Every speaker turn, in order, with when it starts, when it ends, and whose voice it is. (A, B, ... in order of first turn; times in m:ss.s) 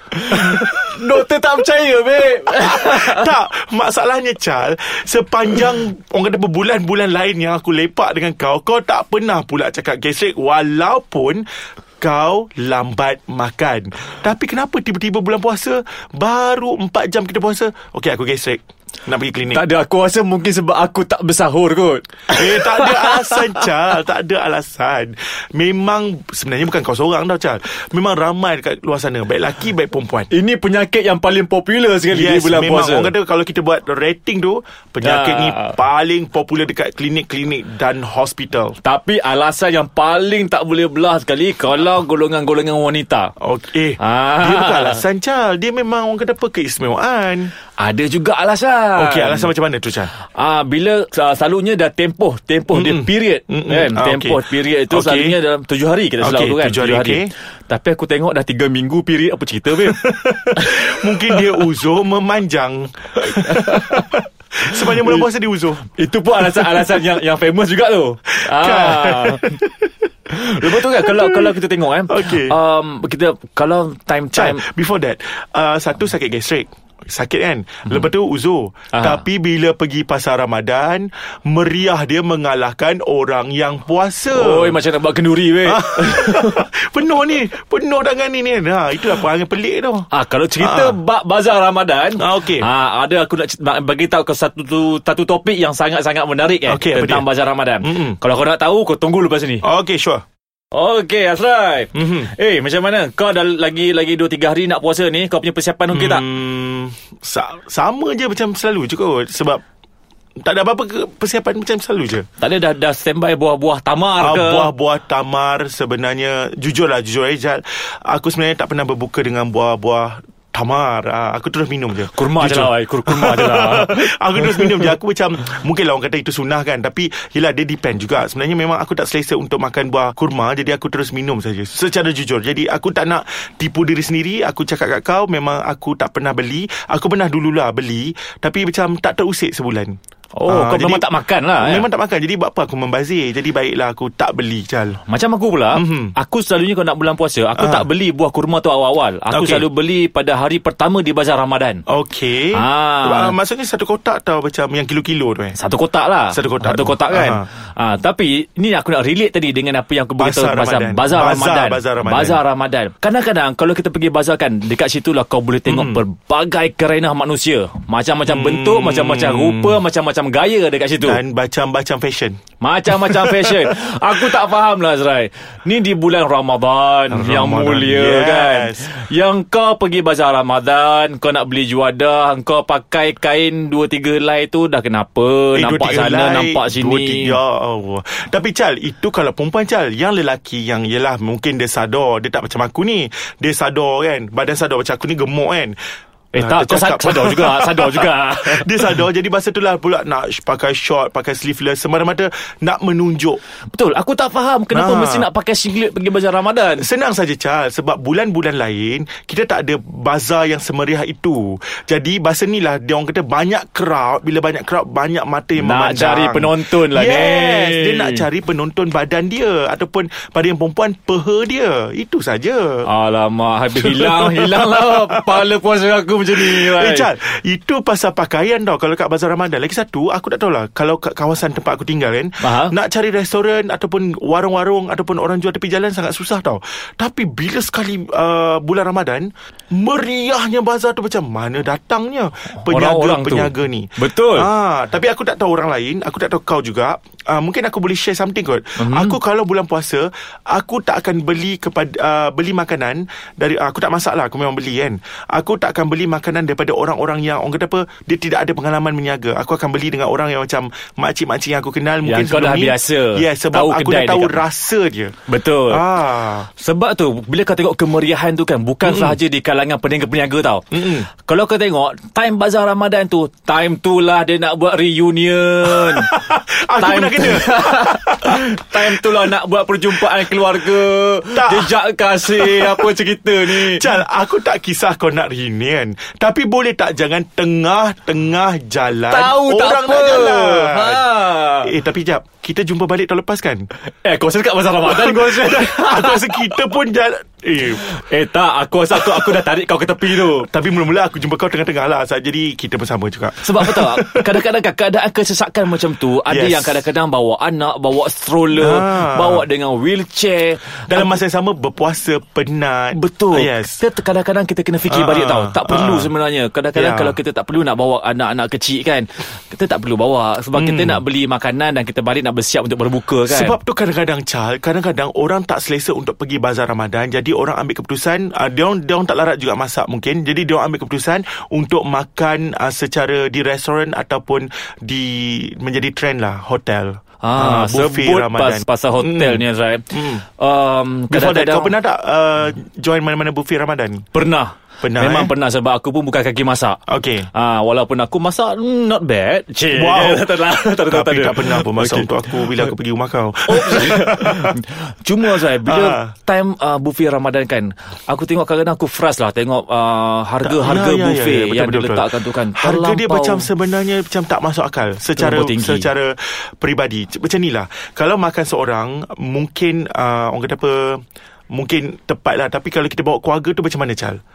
0:00.1-0:03.3 A
0:00.3-0:01.2 B
0:02.4-0:11.4 B
0:12.0-0:19.6 B
0:19.5-0:23.7 A
0:22.3-0:30.3 B
0:30.3-0:33.1 A
0:32.1-0:38.8 B
0:35.0-0:35.8 A
0:38.8-0:43.3 A
0:43.4-0:47.5 B
0:44.0-0:45.0 A
0:47.8-0:49.5 A
0:48.9-0:50.1 B
0:50.2-1:01.6 A
0:52.7-0:55.4 B
0:56.2-0:57.3 B
0:59.8-1:05.8 B
1:03.2-1:04.1 A
1:04.8-1:05.2 A
1:05.9-1:09.6 A
1:06.4-1:07.1 B
1:08.3-1:12.6 B
1:10.3-1:14.6 A
1:14.3-1:24.8 B
1:18.9-1:19.2 A
1:24.3-1:26.6 A
1:25.6-1:30.1 B
1:30.1-1:39.6 A
1:30.6-1:31.0 B
1:32.2-1:32.7 B
1:36.6-1:38.2 B
1:39.6-1:40.2 B
1:40.7-1:46.3 A
1:41.9-1:42.3 B
1:45.9-1:49.6 B
1:50.4-1:52.3 B
1:52.4-1:54.7 A
1:54.2-2:20.0 B
2:02.1-2:04.9 A
2:20.4-2:21.9 A
2:20.5-2:25.0 B
2:25.1-2:31.8 A
2:25.7-2:26.2 B
2:27.6-2:27.9 B
2:29.3-2:29.7 B
2:31.9-2:35.6 B
2:32.5-2:33.4 A
2:35.5-2:51.2 A
2:36.3-2:37.5 B
2:40.2-2:42.4 B
2:45.6-2:46.0 B
2:48.2-2:49.8 B
2:51.0-2:52.4 B
2:52.6-3:07.4 A
2:53.0-2:53.7 B
2:57.1-2:58.9 B
3:05.5-3:15.8 B
3:16.3-3:19.0 A
3:16.3-3:23.4 B
3:23.7-3:26.9 A
3:24.7-3:25.3 B
3:26.8-3:42.9 B
3:35.6-3:38.2 A
3:42.8-3:47.1 A
3:43.8-3:45.4 B
3:46.4-4:25.1 B
3:52.4-3:52.7 A
4:02.6-4:04.5 A
4:08.8-4:09.2 A
4:22.0-4:24.4 A
4:25.3-4:25.9 A
4:25.7-4:26.5 B
4:26.5-4:36.2 A
4:28.8-4:29.2 B
4:30.7-4:31.1 B
4:35.7-4:39.1 B
4:36.8-4:43.8 A
4:41.3-4:42.9 B
4:43.5-4:53.7 B
4:49.0-4:51.7 A
4:54.0-4:56.6 A
4:54.8-4:58.0 B
4:57.8-5:00.5 A
4:58.9-4:59.4 B
5:00.2-5:04.4 B
5:03.4-5:11.2 A
5:06.3-5:06.8 B
5:08.5-5:09.4 B
5:10.9-5:13.8 B
5:12.9-5:23.6 A
5:14.9-5:16.1 B
5:16.7-5:17.2 B
5:20.5-5:21.0 B
5:23.3-5:40.2 B
5:37.2-5:41.8 A
5:41.1-5:44.0 B
5:44.1-5:46.8 A
5:44.8-5:45.3 B
5:46.9-5:47.3 B
5:47.3-5:52.7 A
5:49.7-5:50.3 B
5:50.9-5:54.6 B
5:53.5-6:03.5 A
5:55.3-5:56.1 B
6:00.4-6:14.2 B
6:05.2-6:05.9 A